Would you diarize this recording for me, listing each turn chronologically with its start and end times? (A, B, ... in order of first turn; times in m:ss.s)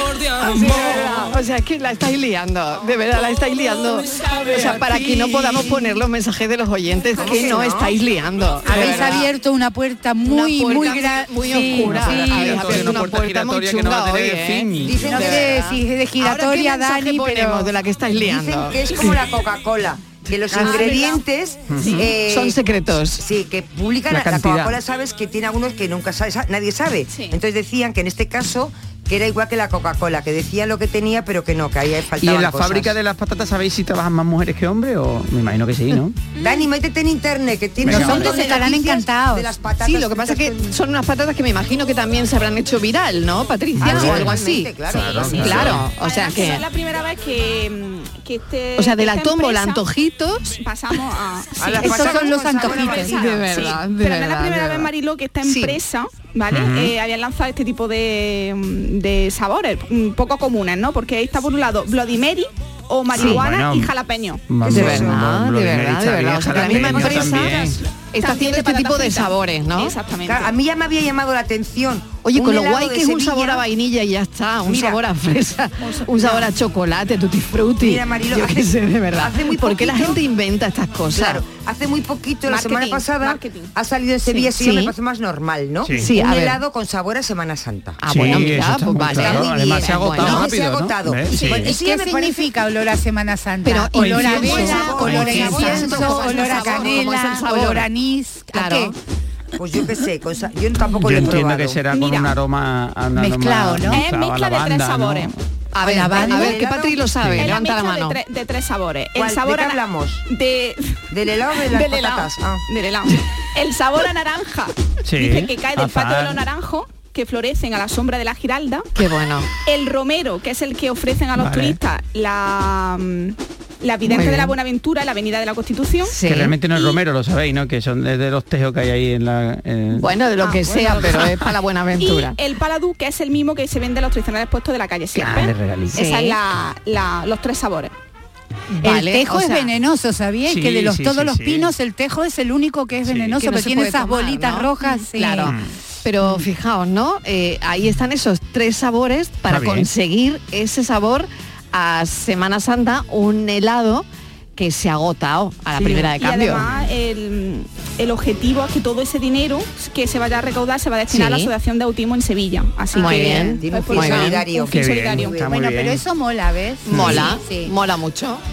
0:00.4-0:09.3 A
0:04.5-0:05.2 B
0:07.2-0:08.0 C
0:08.6-0:12.9 D
0:08.7-0:09.1 C
0:10.2-0:19.2 A
0:11.7-0:15.0 B
0:14.8-0:15.6 C
0:15.1-0:17.7 D
0:18.1-0:22.6 C
0:20.5-0:21.1 D
0:20.5-0:20.9 A
0:20.6-0:21.2 E
0:21.7-0:22.1 B
0:22.2-0:23.2 A
0:23.2-0:33.0 C
0:24.1-0:24.8 B
0:27.1-0:27.4 E
0:32.2-0:36.2 B
0:36.4-0:40.7 C
0:37.8-0:38.3 B
0:37.9-0:39.5 D
0:38.2-0:38.6 E
0:39.8-0:46.6 A
0:43.8-0:45.8 C
0:43.8-0:44.4 B
0:44.9-0:45.8 B
0:44.9-0:49.8 E
0:48.8-0:50.6 A
0:50.6-1:04.4 E
0:51.6-0:53.8 C
0:51.8-0:53.2 D
0:53.0-0:54.9 A
0:55.4-0:55.8 A
0:56.5-0:56.9 B
1:03.1-1:03.4 A
1:03.1-1:03.9 B
1:04.5-1:07.8 B
1:04.6-1:05.2 C
1:04.6-1:10.0 A
1:08.1-1:10.5 E
1:10.2-1:13.6 C
1:12.2-1:21.4 A
1:14.6-1:15.1 C
1:15.8-1:16.5 E
1:17.8-1:20.2 C
1:21.1-1:32.5 C
1:22.4-1:23.7 E
1:24.5-1:24.9 A
1:25.8-1:26.1 B
1:26.0-1:26.6 A
1:28.0-1:30.5 A
1:28.1-1:31.7 B
1:31.3-1:31.7 E
1:31.6-1:38.9 D
1:33.6-1:37.9 A
1:33.9-1:35.8 B
1:34.1-1:37.0 C
1:38.5-1:38.9 A
1:39.6-1:41.8 C
1:41.0-1:45.3 B
1:41.9-1:42.3 E
1:43.1-1:44.0 D
1:43.9-1:45.3 E
1:45.7-1:48.2 A
1:45.8-1:46.6 D
1:46.1-1:47.1 C
1:47.2-1:47.5 B
1:47.4-1:51.0 E
1:49.2-1:50.2 C
1:51.1-1:52.6 C
1:51.6-1:58.9 E
1:55.0-1:56.4 B
1:58.9-1:59.5 A
1:59.6-2:06.2 E
2:01.3-2:01.8 B
2:04.0-2:04.5 A
2:06.0-2:06.5 A
2:06.3-2:10.2 B
2:09.9-2:12.4 A
2:10.4-2:11.2 E
2:10.7-2:11.5 B
2:12.0-2:17.9 E
2:15.2-2:16.0 B
2:15.9-2:16.4 A
2:18.8-2:19.7 A
2:18.8-2:25.5 D
2:20.4-2:21.7 B
2:23.0-2:23.4 B
2:23.4-2:36.7 A
2:29.5-2:29.9 B
2:35.8-2:36.1 B
2:36.0-2:45.4 E
2:41.1-2:41.5 A
2:42.9-2:44.5 A
2:43.0-2:43.5 D
2:43.0-2:45.5 C
2:44.7-2:46.0 B
2:45.4-2:47.7 D
2:46.9-2:48.4 A
2:46.9-2:47.2 B